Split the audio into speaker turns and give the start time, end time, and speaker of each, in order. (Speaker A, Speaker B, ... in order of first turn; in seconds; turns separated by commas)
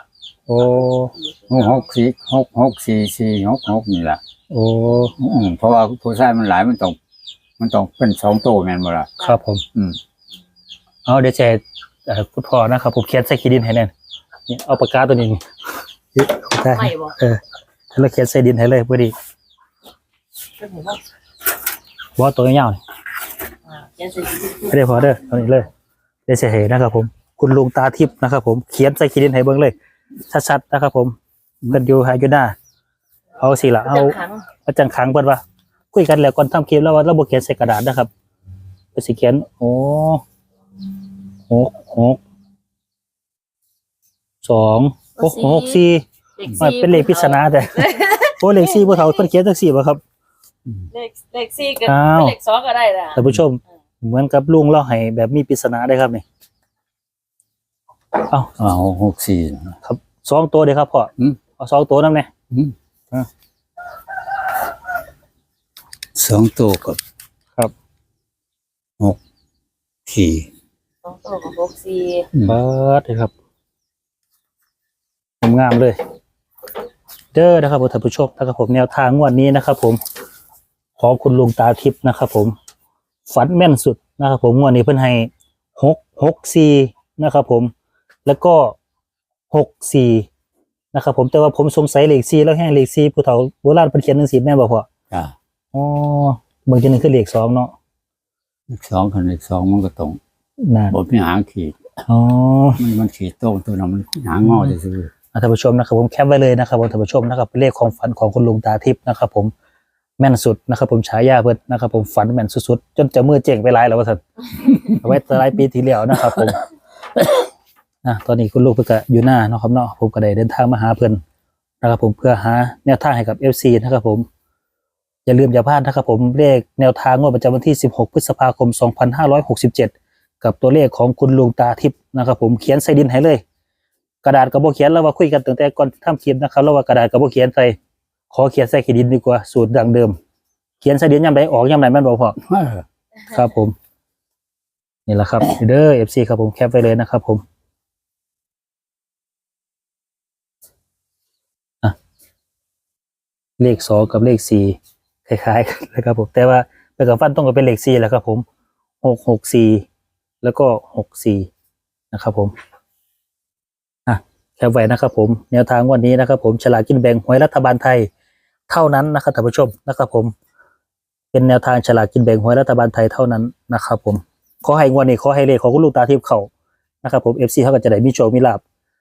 Speaker A: 0.5-1.1, Speaker B: 0.9-1.9, Speaker C: 1.5-4.2, Speaker A: 4.5-5.2, Speaker C: 5.1-7.0, Speaker C: 7.6-9.1, Speaker A: 9.2-9.6, Speaker A: 11.1-13.9, Speaker A: 14.5-15.4, Speaker A: 16.1-17.4, Speaker B: 16.6-17.1, Speaker A: 17.9-19.1, Speaker B: 20.6-21.0, Speaker A: 22.2-22.8, Speaker B: 23.7-25.1, Speaker A: 24.7-25.7, Speaker A: 26.3-29.7, Speaker A: 30.3-31.2, Speaker A: 31.7-32.5, Speaker A: 33.4-38.1, Speaker B: 33.8-34.5, Speaker A: 38.9-40.2, Speaker A: 41.5-42.2, Speaker A: 44.4-46.0, Speaker B: 45.2-45.8, Speaker B: 46.4-49.2, Speaker A: 46.6-50.0, Speaker B: 50.9-53.2, Speaker A: 51.8-52.4, Speaker A: 53.1-56.2, Speaker A: 58.2-58.5, Speaker C: 58.6-59.8, Speaker A: 59.8-62.3, Speaker C: 66.1-67.0, Speaker C: 70.1-70.5, Speaker B: 71.0-72.3, Speaker C: 72.3-72.6, Speaker A: 72.5-73.3, Speaker A: 75.4-76.0, Speaker A: 77.3-80.0, Speaker A: 81.0-82.5, Speaker A: 83.3-87.7, Speaker A: 88.2-88.8, Speaker A: 89.5-90.3, Speaker A: 90.9-94.9, Speaker A: 95.7-97.7, Speaker C: 98.7-100.2, Speaker A: 100.6-100.9, Speaker C: 100.9-101.8, Speaker A: 102.1-102.8, Speaker C: 102.8-105.1, Speaker A: 104.4-104.7, Speaker A: 105.3-109.5, Speaker A: 110.2-114.2, Speaker C: 114.7-115.0, Speaker A: 114.8-116.6, Speaker C: 116.1-116.5, Speaker A: 118.0-121.2, Speaker A: 121.8-124.2, Speaker A: 125.2-133.4, Speaker A: 134.2-137.8, Speaker A: 138.3-140.2, Speaker A: 140.8-142.4, Speaker C: 142.4-142.8, Speaker A: 143.3-143.8, Speaker A: 145.1-147.4, Speaker A: 153.6-158.4, Speaker A: 159.0-159.8, Speaker A: 160.4-161.5, Speaker A: 162.1-162.5, Speaker A: 164.1-168.1, Speaker A: 168.7-170.3, Speaker A: 171.3-176.5, Speaker A: 177.0-178.6